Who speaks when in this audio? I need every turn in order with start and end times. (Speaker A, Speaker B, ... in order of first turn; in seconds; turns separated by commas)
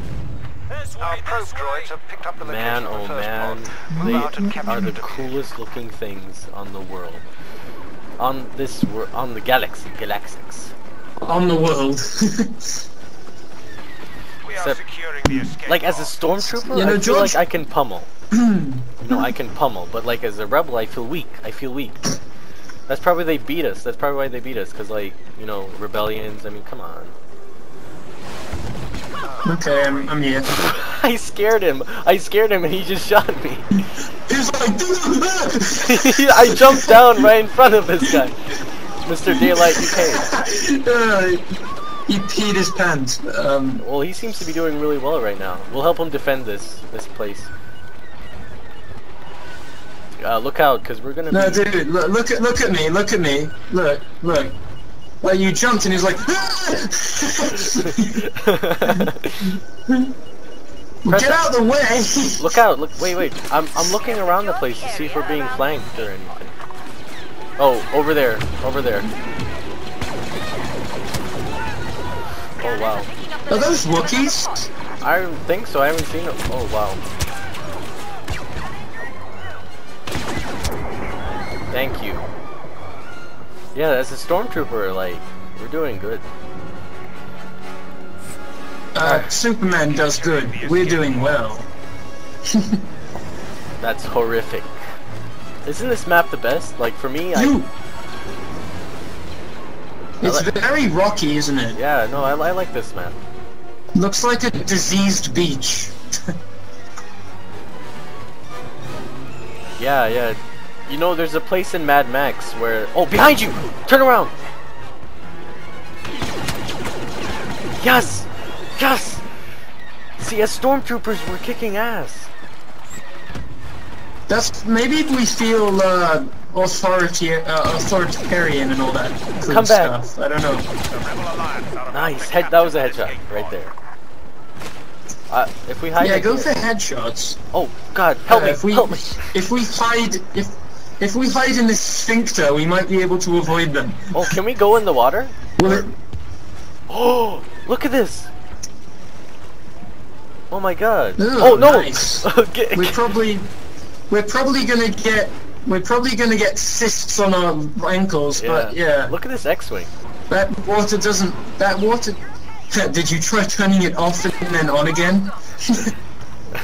Speaker A: 1.0-5.3, Speaker B: 2.4-7.3, Speaker C: 3.9-4.9, Speaker B: 8.2-10.7, Speaker C: 11.2-12.8, Speaker A: 14.4-15.9, Speaker B: 14.5-14.8, Speaker B: 15.7-18.1, Speaker C: 16.6-17.4, Speaker C: 18.4-19.3, Speaker B: 19.0-22.0, Speaker B: 22.9-27.1, Speaker A: 29.2-30.0, Speaker C: 29.4-30.6, Speaker B: 30.5-33.7, Speaker C: 34.3-37.3, Speaker B: 35.8-38.4, Speaker B: 39.0-40.3, Speaker C: 39.3-41.4, Speaker C: 42.1-43.8, Speaker B: 43.8-47.5, Speaker B: 50.2-51.7, Speaker C: 51.3-54.6, Speaker C: 55.2-58.2, Speaker B: 57.6-59.6, Speaker C: 61.0-62.6, Speaker B: 61.1-61.5, Speaker B: 62.4-66.5, Speaker A: 64.0-65.8, Speaker B: 67.6-69.1, Speaker A: 72.6-74.7, Speaker B: 72.6-73.1, Speaker C: 73.5-74.7, Speaker B: 75.0-77.0, Speaker B: 81.7-82.3, Speaker B: 83.8-86.3, Speaker C: 89.0-91.7, Speaker B: 89.0-89.3, Speaker A: 89.7-91.4, Speaker C: 92.5-92.8, Speaker B: 93.8-94.8, Speaker B: 95.6-97.6, Speaker C: 97.3-97.7, Speaker C: 100.2-101.8, Speaker B: 100.2-100.5, Speaker B: 101.8-103.2, Speaker C: 104.0-106.0, Speaker B: 109.8-114.3, Speaker B: 117.8-119.2, Speaker B: 120.2-122.3, Speaker C: 124.3-130.7, Speaker B: 129.5-130.0, Speaker A: 130.9-133.6, Speaker B: 131.9-133.7, Speaker B: 135.3-136.7, Speaker C: 136.0-137.4, Speaker B: 137.5-139.3, Speaker C: 138.3-144.3, Speaker B: 144.1-145.8, Speaker C: 145.6-145.9, Speaker B: 146.9-148.3, Speaker B: 150.5-152.9, Speaker C: 151.2-153.5, Speaker C: 154.1-159.1, Speaker B: 158.4-159.9, Speaker C: 160.3-162.2, Speaker C: 162.7-165.9